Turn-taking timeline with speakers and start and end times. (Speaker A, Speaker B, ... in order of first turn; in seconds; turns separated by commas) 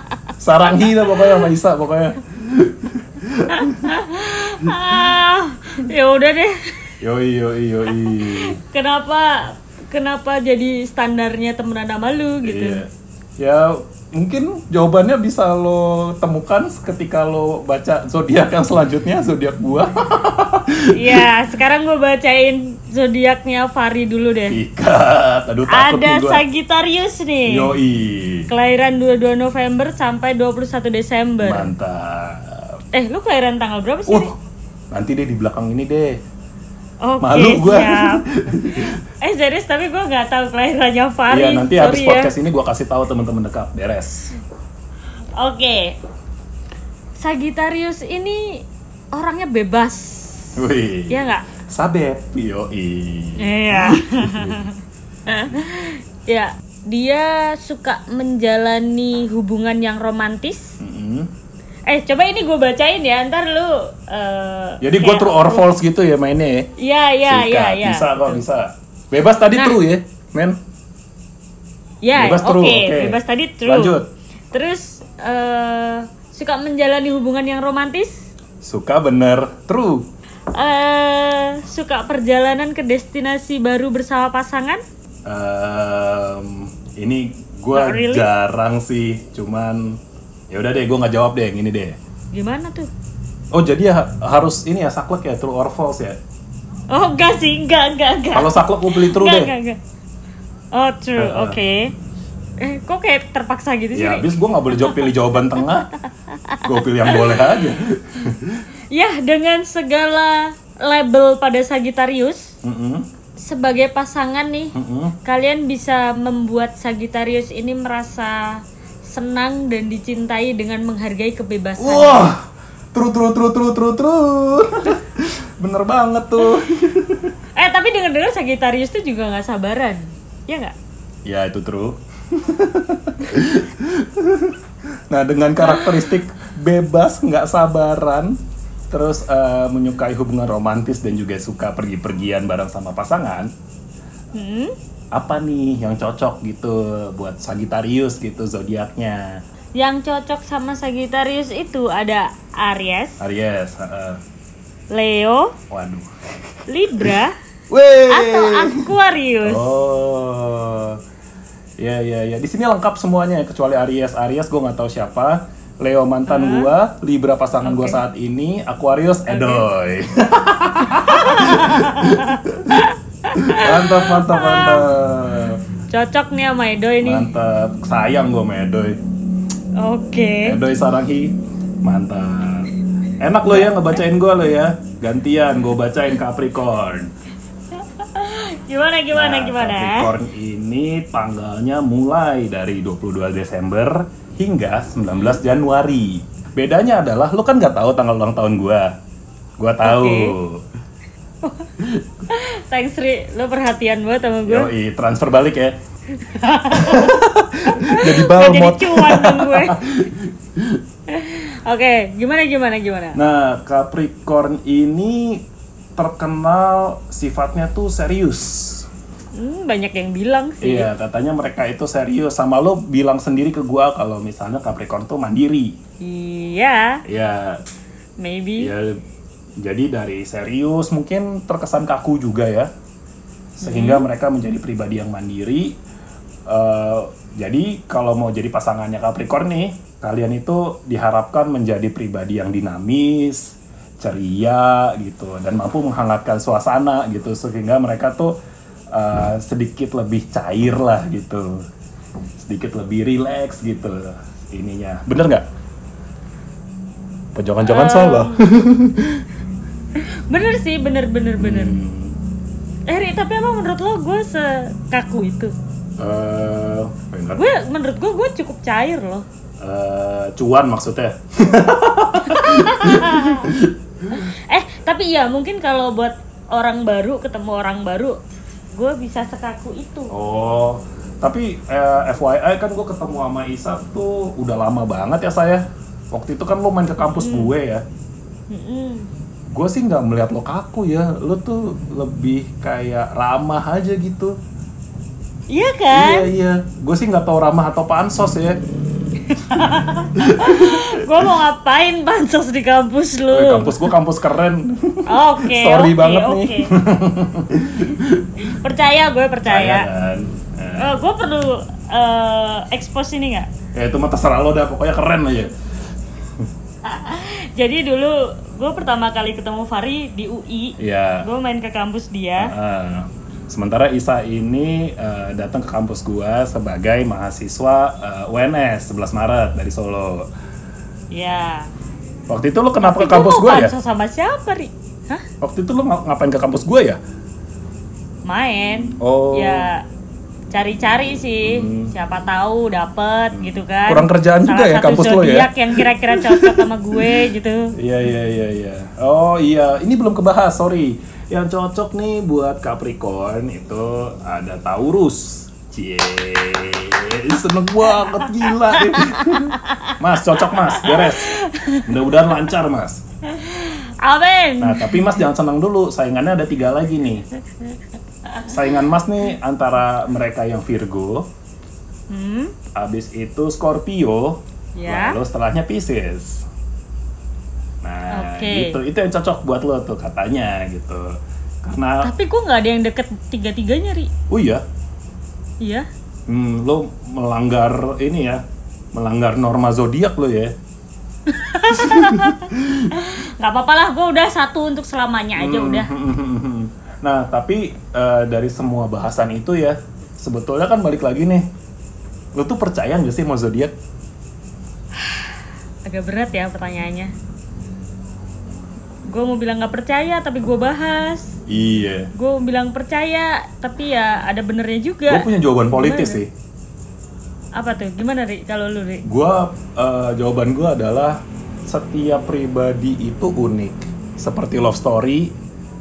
Speaker A: 0.4-4.0, Speaker B: 0.8-1.4, Speaker B: 3.5-6.9, Speaker A: 4.6-5.1, Speaker A: 7.0-8.6, Speaker B: 7.9-12.8, Speaker A: 12.4-12.9, Speaker A: 13.4-21.3, Speaker B: 20.9-24.6, Speaker A: 24.5-26.4, Speaker B: 25.7-27.7, Speaker A: 27.5-28.5, Speaker B: 28.5-31.7, Speaker A: 31.4-32.8, Speaker B: 32.9-34.3, Speaker A: 34.1-34.4, Speaker A: 34.9-36.2, Speaker B: 37.0-42.3, Speaker A: 37.2-39.0, Speaker A: 41.3-44.3, Speaker B: 45.4-46.0, Speaker B: 47.2-51.4, Speaker A: 50.5-54.7, Speaker B: 53.4-60.8, Speaker A: 60.8-61.3, Speaker B: 61.9-65.7, Speaker A: 64.8-66.7, Speaker B: 66.8-68.4, Speaker A: 67.3-70.6, Speaker B: 72.0-74.0, Speaker A: 72.2-74.1, Speaker B: 74.5-78.3, Speaker A: 78.6-80.0, Speaker B: 80.5-84.8, Speaker A: 85.2-90.0, Speaker B: 87.7-88.3, Speaker A: 90.5-92.0, Speaker B: 92.3-92.9, Speaker A: 93.5-96.2, Speaker B: 96.9-99.8, Speaker A: 98.3-99.5, Speaker B: 100.7-101.9, Speaker A: 101.2-101.6, Speaker B: 102.6-105.1, Speaker A: 103.9-105.9, Speaker B: 106.0-107.7, Speaker A: 106.6-108.6, Speaker B: 108.9-112.5, Speaker A: 112.6-113.0, Speaker B: 113.4-122.3, Speaker A: 114.7-115.1, Speaker A: 121.8-127.4, Speaker B: 127.5-130.7, Speaker A: 131.2-138.4, Speaker B: 135.6-136.1, Speaker A: 138.9-143.5, Speaker B: 144.3-144.7, Speaker A: 145.1-149.4, Speaker B: 149.8-153.2, Speaker A: 153.2-154.2, Speaker B: 154.9-155.6, Speaker A: 155.7-157.1, Speaker B: 156.7-157.3, Speaker A: 157.7-161.0, Speaker B: 158.1-159.7, Speaker A: 161.8-175.6, Speaker B: 166.3-166.7, Speaker B: 167.6-168.0, Speaker B: 169.3-169.6, Speaker B: 171.0-174.9, Speaker B: 175.9-177.3, Speaker A: 177.0-179.0, Speaker B: 179.8-180.6, Speaker A: 180.4-187.1, Speaker B: 183.5-183.7, Speaker B: 187.8-190.1, Speaker A: 189.1-198.9, Speaker A: 199.6-200.6, Speaker B: 199.8-200.4, Speaker B: 201.4-201.7, Speaker B: 202.3-204.7, Speaker A: 204.4-205.8, Speaker B: 206.1-209.8, Speaker A: 206.7-210.8, Speaker B: 211.1-213.2, Speaker A: 213.1-215.4, Speaker A: 215.9-218.9, Speaker B: 219.3-220.9, Speaker A: 220.6-225.8, Speaker B: 226.0-227.0, Speaker A: 227.1-227.6, Speaker B: 228.2-228.7, Speaker A: 228.6-229.0, Speaker A: 229.6-232.7, Speaker A: 233.6-235.8, Speaker B: 233.6-234.1, Speaker A: 236.5-248.3, Speaker A: 248.9-251.7, Speaker A: 252.4-255.4, Speaker A: 257.3-259.3, Speaker B: 257.6-258.4, Speaker B: 259.9-261.8, Speaker A: 261.4-262.2, Speaker B: 262.9-265.5, Speaker A: 266.0-267.5, Speaker B: 267.4-269.2, Speaker A: 269.6-274.3, Speaker B: 272.2-273.5, Speaker B: 274.1-278.2, Speaker B: 278.7-280.1, Speaker A: 280.1-287.8, Speaker B: 287.0-287.5, Speaker B: 288.5-289.1, Speaker A: 289.5-294.4, Speaker B: 295.5-296.3, Speaker A: 295.9-298.6, Speaker B: 299.3-303.9, Speaker A: 300.1-301.4, Speaker A: 303.3-308.3, Speaker B: 305.1-306.7, Speaker B: 308.4-309.9, Speaker A: 309.4-311.0, Speaker B: 310.8-313.5, Speaker A: 313.7-315.5, Speaker B: 316.8-322.5, Speaker A: 320.8-321.2, Speaker A: 322.4-330.3, Speaker B: 331.1-331.7, Speaker A: 332.3-333.7, Speaker B: 332.8-335.2, Speaker A: 335.4-337.0, Speaker B: 338.3-339.8, Speaker A: 338.9-339.7, Speaker B: 340.5-347.7, Speaker A: 341.4-341.9, Speaker A: 343.3-363.0, Speaker B: 358.0-360.0, Speaker B: 360.5-361.9, Speaker B: 363.3-365.2, Speaker A: 364.6-367.2, Speaker B: 367.7-368.7, Speaker A: 368.4-371.3, Speaker B: 372.1-372.5, Speaker A: 372.7-376.4, Speaker B: 374.8-375.2, Speaker A: 377.8-382.1, Speaker B: 378.1-378.8, Speaker B: 382.0-384.1, Speaker A: 384.3-384.6, Speaker B: 385.6-385.9, Speaker A: 386.3-388.4, Speaker A: 388.9-390.5, Speaker B: 391.3-395.9, Speaker A: 391.7-392.9, Speaker A: 395.4-401.4, Speaker A: 402.4-403.7, Speaker B: 404.9-405.3, Speaker B: 405.9-407.1, Speaker B: 409.1-411.4, Speaker A: 411.5-412.1, Speaker B: 412.1-416.2, Speaker A: 415.1-416.3, Speaker B: 417.6-419.0, Speaker A: 419.0-425.3